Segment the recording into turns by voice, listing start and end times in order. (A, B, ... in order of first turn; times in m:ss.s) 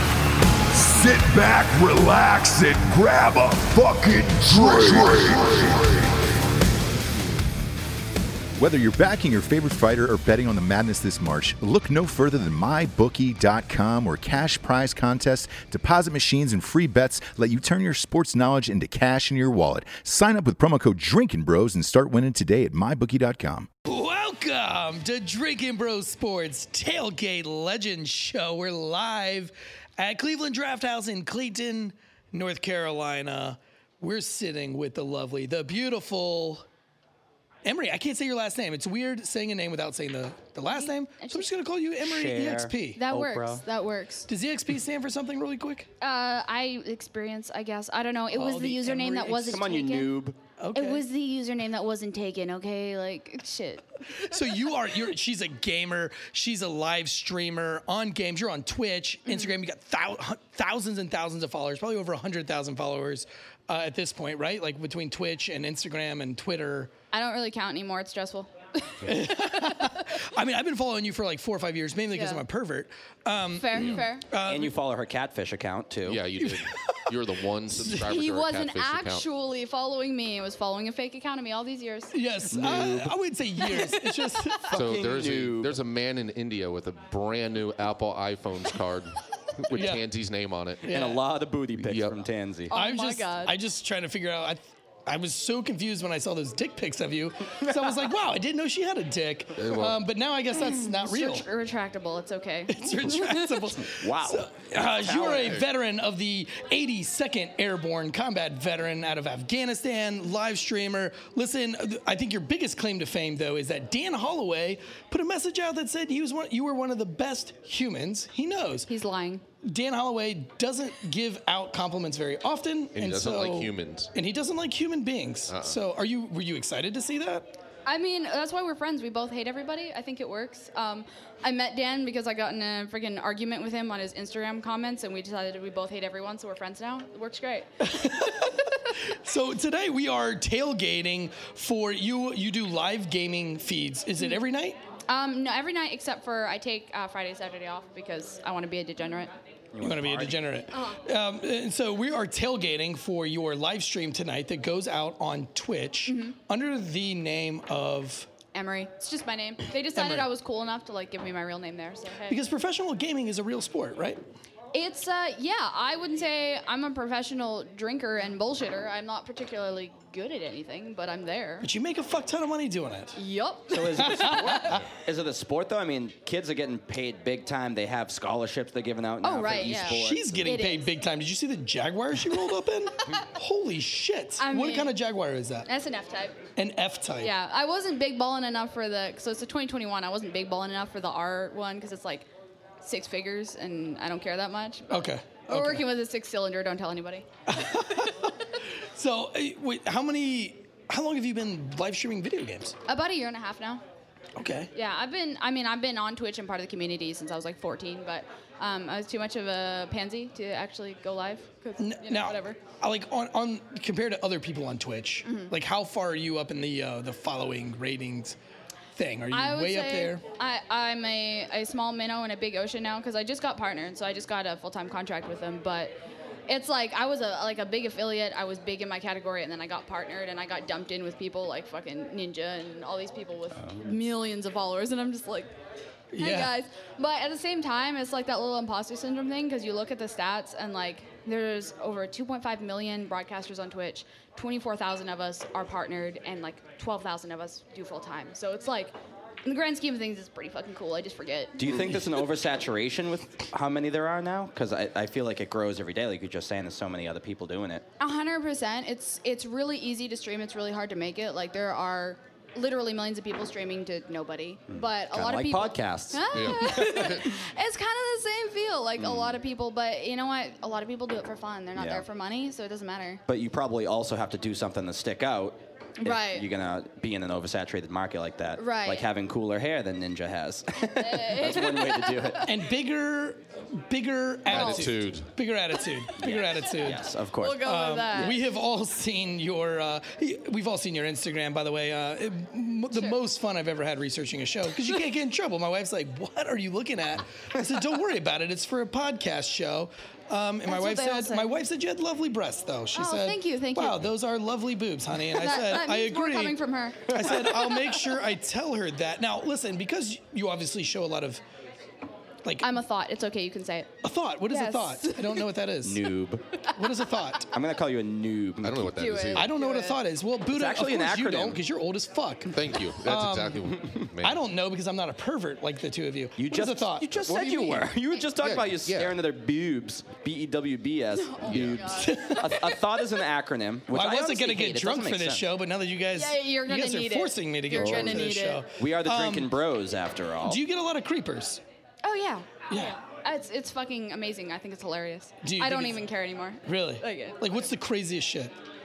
0:00.7-0:06.1 A
0:08.6-0:23.7 B
0:23.8-0:36.6 C
0:37.6-0:43.0 C
0:40.7-0:41.5 D
0:42.0-0:43.6 E
0:42.9-0:44.3 D
0:44.3-0:45.9 C
0:46.0-0:50.1 D
0:48.3-0:49.6 C
0:49.5-0:50.4 E
0:50.6-0:51.0 C
0:50.7-0:54.6 D
0:54.2-1:06.9 C
0:59.2-0:59.5 D
1:07.1-1:10.1 D
1:09.0-1:14.7 C
1:12.1-1:12.4 D
1:13.5-1:14.2 D
1:14.4-1:16.2 E
1:16.0-1:19.2 F
1:16.4-1:17.1 C
1:17.7-1:18.0 C
1:17.7-1:22.2 D
1:22.1-1:24.7 C
1:22.5-1:23.2 E
1:23.6-1:24.5 D
1:24.7-1:25.8 E
1:24.7-1:30.9 F
1:29.6-1:29.9 E
1:29.7-1:30.0 C
1:30.8-1:31.2 C
1:30.9-1:32.7 E
1:31.8-1:32.2 F
1:32.7-1:33.5 D
1:32.7-1:41.4 C
1:39.6-1:40.0 F
1:40.5-1:43.8 D
1:42.7-1:58.9 C
1:43.8-1:45.6 E
1:58.9-1:59.4 D
1:59.6-2:07.5 C
2:02.9-2:04.1 F
2:05.5-2:05.8 F
2:07.8-2:18.7 D
2:17.8-2:24.8 C
2:25.1-2:29.3 D
2:29.7-2:30.4 E
2:29.8-2:38.3 C
2:30.7-2:31.0 D
2:36.0-2:36.4 D
2:38.5-2:42.4 D
2:39.9-2:40.3 C
2:42.3-2:44.2 C
2:44.7-2:51.7 D
2:51.6-2:53.2 C
2:53.2-2:54.8 D
2:53.7-3:00.5 E
2:54.0-2:54.7 C
2:59.2-3:00.9 D
2:59.6-3:05.7 C
3:04.4-3:05.0 D
3:05.6-3:06.4 D
3:06.6-3:07.3 C
3:07.2-3:12.3 D
3:12.8-3:17.3 D
3:14.9-3:15.9 C
3:17.5-3:22.7 C
3:22.8-3:23.8 D
3:24.4-3:24.7 C
3:24.7-3:32.6 D
3:31.8-3:38.4 C
3:35.2-3:35.5 D
3:39.0-3:40.2 C
3:39.3-3:45.9 D
3:46.5-3:55.5 D
3:56.1-3:56.5 C
3:56.2-4:11.6 D
4:11.6-4:17.8 E
4:18.0-4:33.2 D
4:24.7-4:26.8 E
4:26.3-4:27.3 F
4:29.0-4:29.4 E
4:31.8-4:32.0 E
4:33.3-4:42.4 E
4:36.0-4:36.5 D
4:38.6-4:39.1 D
4:40.8-4:42.6 D
4:42.4-4:47.0 C
4:44.5-4:45.3 F
4:44.5-4:44.9 D
4:46.2-4:48.4 E
4:47.4-4:48.5 D
4:47.6-5:11.4 C
4:52.9-4:53.2 D
5:00.6-5:01.6 D
5:02.9-5:04.1 D
5:05.3-5:08.1 D
5:12.4-5:12.8 C
5:12.6-5:13.9 D
5:14.0-5:16.0 C
5:14.5-5:15.5 D
5:15.8-5:16.5 E
5:16.8-5:17.5 C
5:17.5-5:19.2 E
5:18.6-5:19.5 F
5:18.9-5:20.0 D
5:19.4-5:27.1 C
5:20.5-5:21.6 E
5:22.5-5:24.4 F
5:26.4-5:35.5 E
5:27.2-5:28.2 D
5:28.4-5:29.2 F
5:31.1-5:33.2 D
5:31.5-5:31.9 F
5:32.0-5:32.5 C
5:33.9-5:39.5 C
5:36.1-5:38.6 D
5:37.8-5:40.6 E
5:40.4-5:41.6 C
5:42.0-5:47.4 D
5:42.7-5:43.0 C
5:45.4-5:46.0 C
5:46.6-5:48.5 C